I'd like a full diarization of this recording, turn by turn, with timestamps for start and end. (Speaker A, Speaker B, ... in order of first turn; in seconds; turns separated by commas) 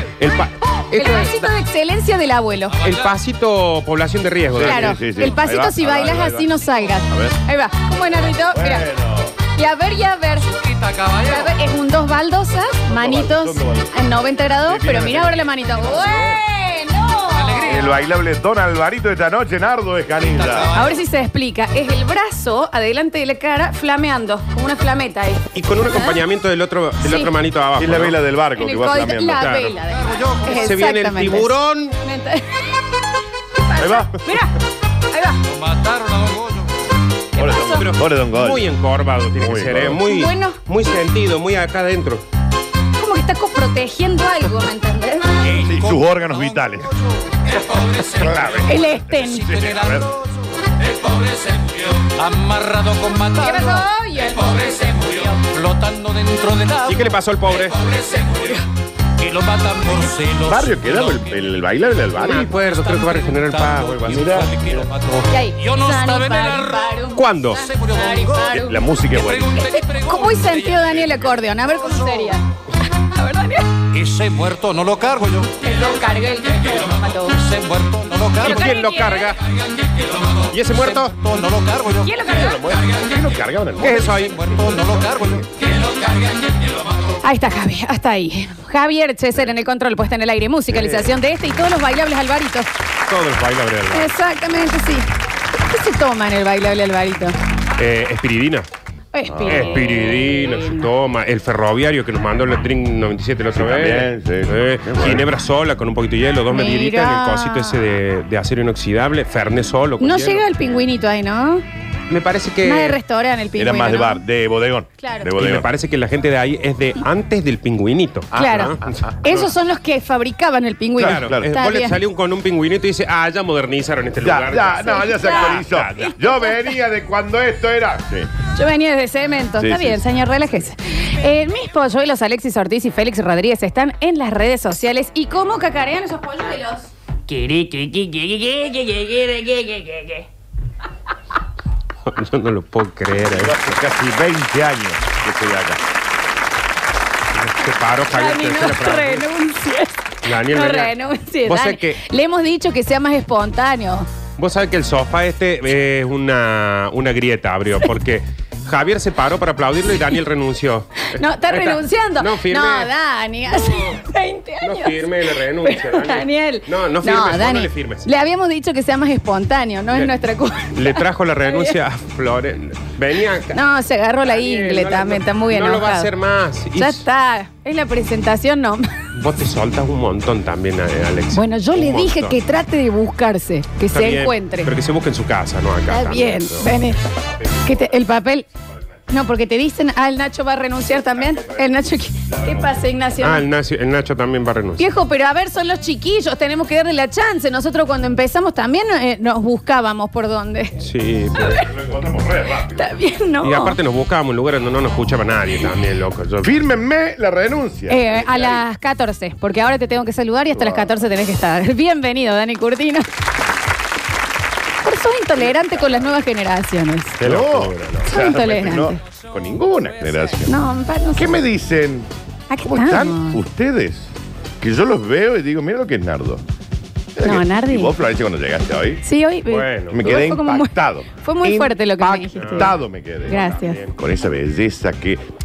Speaker A: 0.2-1.5, Speaker B: 0.9-2.8, Speaker A: 2.8-5.0, Speaker C: 4.5-7.4, Speaker B: 4.6-8.9, Speaker C: 8.5-9.3, Speaker B: 9.5-17.9, Speaker D: 10.8-11.1, Speaker C: 12.8-16.4, Speaker C: 17.6-20.8, Speaker B: 20.7-26.2, Speaker A: 25.5-28.2, Speaker B: 27.0-27.3, Speaker C: 27.8-29.5, Speaker B: 28.6-32.8, Speaker A: 29.4-29.8, Speaker A: 30.5-32.0, Speaker B: 33.5-34.5, Speaker C: 33.8-34.2, Speaker B: 35.1-35.4, Speaker D: 35.5-36.8, Speaker B: 37.3-37.9, Speaker C: 37.4-38.7, Speaker A: 37.6-42.2, Speaker C: 39.4-40.0, Speaker B: 40.0-40.6, Speaker B: 43.0-45.6, Speaker C: 45.5-47.0, Speaker D: 45.5-45.9, Speaker C: 48.0-50.1, Speaker B: 48.6-49.6, Speaker D: 49.6-50.0, Speaker D: 50.9-53.6, Speaker B: 53.4-55.5, Speaker D: 55.5-56.9, Speaker A: 56.8-57.9, Speaker B: 58.1-58.6, Speaker D: 59.2-60.6, Speaker C: 60.4-62.6, Speaker A: 62.1-64.5, Speaker D: 63.3-66.5, Speaker C: 64.0-64.9, Speaker B: 65.3-68.8, Speaker A: 67.1-67.7, Speaker D: 67.8-68.3, Speaker C: 68.5-69.7, Speaker B: 69.5-73.8, Speaker D: 73.9-75.5, Speaker B: 75.6-77.4, Speaker D: 77.4-78.6, Speaker B: 78.4-79.3, Speaker A: 78.4-79.4, Speaker A: 80.4-81.2, Speaker D: 81.0-82.1, Speaker B: 82.0-82.8, Speaker C: 82.2-84.2, Speaker A: 83.8-84.6, Speaker D: 84.4-85.5, Speaker B: 87.1-92.7, Speaker C: 90.7-91.1, Speaker A: 93.1-94.2, Speaker B: 93.9-95.1, Speaker B: 95.6-97.3, Speaker A: 97.8-98.7, Speaker B: 99.1-100.9, Speaker C: 99.3-99.8, Speaker A: 99.5-110.5, Speaker C: 103.5-105.3, Speaker B: 106.5-108.0, Speaker B: 110.0-111.6, Speaker A: 112.1-113.0, Speaker B: 112.6-114.2, Speaker C: 113.5-115.7, Speaker B: 115.0-115.3, Speaker A: 115.3-119.5, Speaker C: 118.3-119.1, Speaker B: 118.3-122.0, Speaker C: 121.0-121.5, Speaker A: 121.0-126.2, Speaker C: 124.2-128.3, Speaker B: 124.8-126.7, Speaker B: 128.5-136.9, Speaker C: 129.6-130.0, Speaker A: 137.3-138.1, Speaker B: 137.4-140.2, Speaker A: 142.1-143.6, Speaker C: 143.1-145.8, Speaker A: 147.3-149.2, Speaker B: 148.1-154.1, Speaker A: 150.2-150.9, Speaker A: 151.4-152.0, Speaker A: 154.4-162.9, Speaker B: 161.0-171.8, Speaker A: 164.6-168.1, Speaker A: 170.7-173.6, Speaker B: 173.5-176.1, Speaker A: 174.2-177.0, Speaker B: 176.8-179.1, Speaker A: 179.1-182.4, Speaker B: 181.3-184.7, Speaker A: 183.9-186.7, Speaker B: 185.9-187.1, Speaker C: 186.9-188.1, Speaker B: 187.6-188.4, Speaker B: 189.1-193.4, Speaker C: 190.9-192.8, Speaker A: 193.2-194.8, Speaker B: 194.8-200.8, Speaker A: 200.8-201.6, Speaker B: 201.3-201.7, Speaker C: 201.5-203.0, Speaker B: 202.7-203.8, Speaker A: 203.4-206.5, Speaker C: 206.4-208.6, Speaker B: 207.9-213.1, Speaker C: 210.5-210.9, Speaker B: 214.8-217.2, Speaker C: 215.3-216.2, Speaker A: 217.2-218.1, Speaker C: 217.2-220.6, Speaker B: 218.1-218.9, Speaker B: 220.4-221.4, Speaker C: 221.1-222.1, Speaker B: 222.5-223.4, Speaker C: 222.6-226.4, Speaker C: 227.2-229.0, Speaker B: 227.2-227.9, Speaker B: 229.0-232.7, Speaker A: 229.5-230.0, Speaker C: 229.9-235.2, Speaker A: 232.3-232.7, Speaker B: 233.3-233.8, Speaker A: 233.3-233.9